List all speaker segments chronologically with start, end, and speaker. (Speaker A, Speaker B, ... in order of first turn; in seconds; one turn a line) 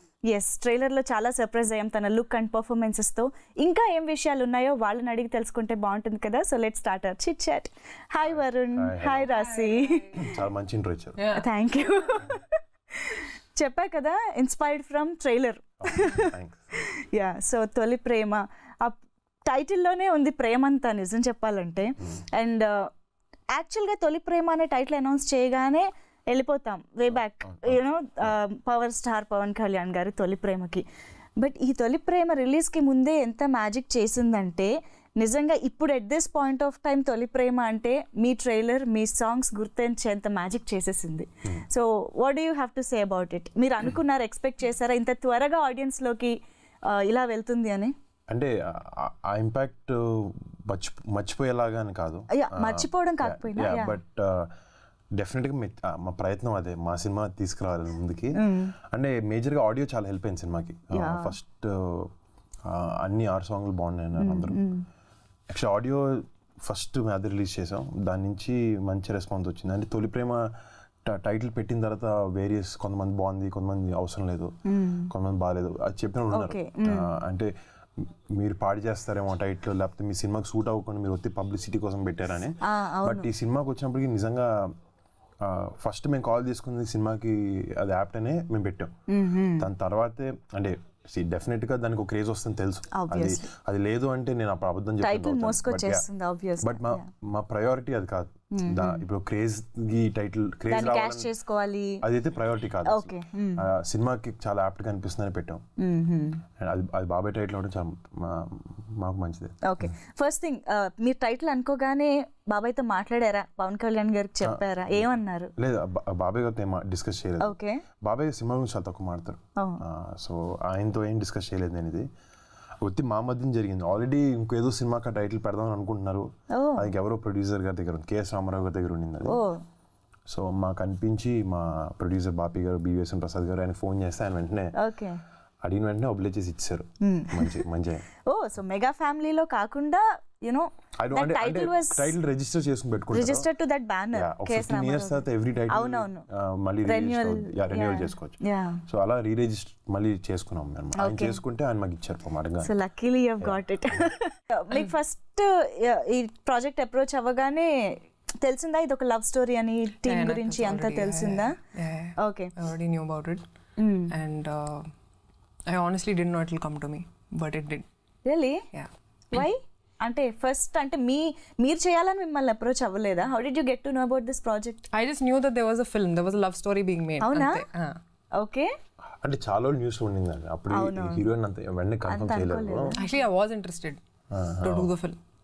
Speaker A: 0.3-10.3
Speaker B: 8.8-9.3
Speaker C: 9.3-10.2
Speaker B: 10.2-11.2
Speaker C: 11.2-11.5
Speaker A: 11.3-22.9
Speaker B: 15.8-16.8
Speaker A: 23.5-30.8
Speaker B: 27.1-28.3
Speaker A: 31.4-47.9
Speaker B: 48.3-54.5
Speaker A: 52.3-54.0
Speaker B: 55.1-62.1
Speaker A: 58.4-58.7
Speaker A: 60.9-61.4
Speaker B: 62.6-64.6
Speaker A: 64.2-64.8
Speaker B: 65.5-70.5
Speaker B: 71.0-74.5
Speaker A: 74.7-75.1
Speaker B: 75.1-84.7
Speaker A: 76.3-77.1
Speaker A: 82.6-83.3
Speaker B: 85.4-88.9
Speaker A: 89.1-89.7
Speaker B: 89.6-96.0
Speaker A: 92.9-93.5
Speaker A: 95.0-97.1
Speaker B: 96.6-101.3
Speaker A: 98.5-99.0
Speaker A: 100.7-102.0
Speaker B: 102.0-105.6
Speaker A: 102.9-103.6
Speaker A: 105.8-106.4
Speaker B: 106.6-109.9
Speaker A: 109.6-115.5
Speaker B: 114.4-122.1
Speaker A: 117.4-117.8
Speaker A: 119.6-119.8
Speaker B: 122.8-129.4
Speaker A: 126.5-126.9
Speaker A: 129.3-129.6
Speaker B: 130.3-134.7
Speaker A: 134.8-135.2
Speaker B: 135.6-138.1
Speaker A: 137.0-137.6
Speaker A: 138.3-142.1
Speaker B: 141.0-143.5
Speaker A: 143.1-146.3
Speaker B: 144.1-152.7
Speaker A: 146.9-148.8
Speaker A: 151.0-151.4
Speaker A: 152.6-161.6
Speaker B: 153.4-154.1
Speaker C: 160.1-163.4
Speaker A: 162.2-162.5
Speaker A: 163.8-164.1
Speaker C: 164.1-164.9
Speaker C: 165.7-167.9
Speaker A: 168.3-168.6
Speaker C: 168.7-169.5
Speaker A: 169.3-174.8
Speaker C: 174.9-178.0
Speaker A: 177.2-177.6
Speaker A: 178.4-178.7
Speaker B: 179.2-182.9
Speaker A: 180.7-181.3
Speaker A: 182.1-183.1
Speaker C: 183.0-184.0
Speaker B: 184.3-184.9
Speaker C: 184.6-185.2